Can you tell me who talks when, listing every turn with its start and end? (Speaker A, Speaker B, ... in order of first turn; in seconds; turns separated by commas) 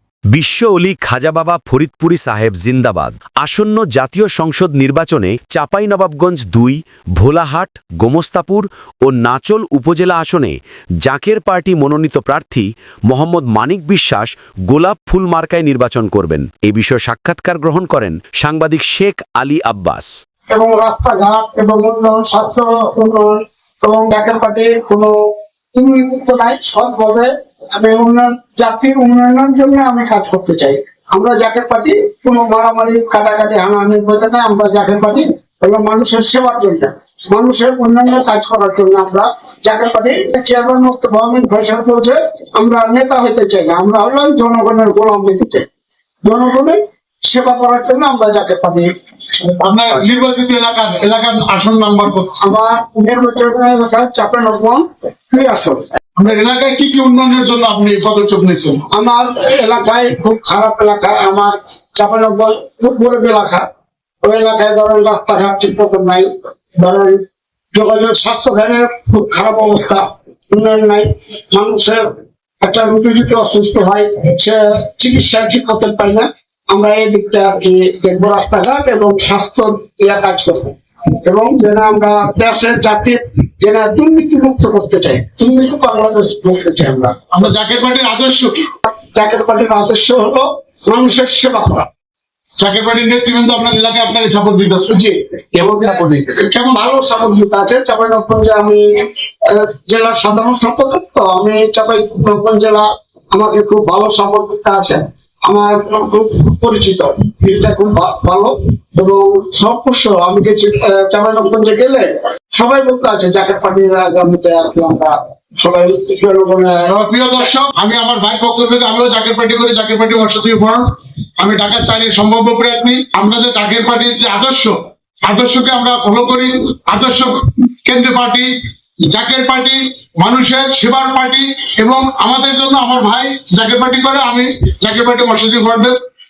Speaker A: 0.3-20.1, Speaker B: 20.5-25.1, Speaker B: 25.7-45.6, Speaker B: 46.2-50.1, Speaker C: 49.6-52.4, Speaker B: 52.4-55.9, Speaker C: 56.2-58.8, Speaker B: 58.9-63.6, Speaker B: 64.2-67.2, Speaker B: 67.7-72.0, Speaker B: 72.6-87.4, Speaker C: 87.3-88.6, Speaker B: 88.9-91.9, Speaker C: 92.6-96.2, Speaker B: 95.0-116.8, Speaker C: 116.9-120.8, Speaker C: 121.4-124.8, Speaker C: 125.3-127.3, Speaker C: 127.8-128.5, Speaker C: 129.1-136.0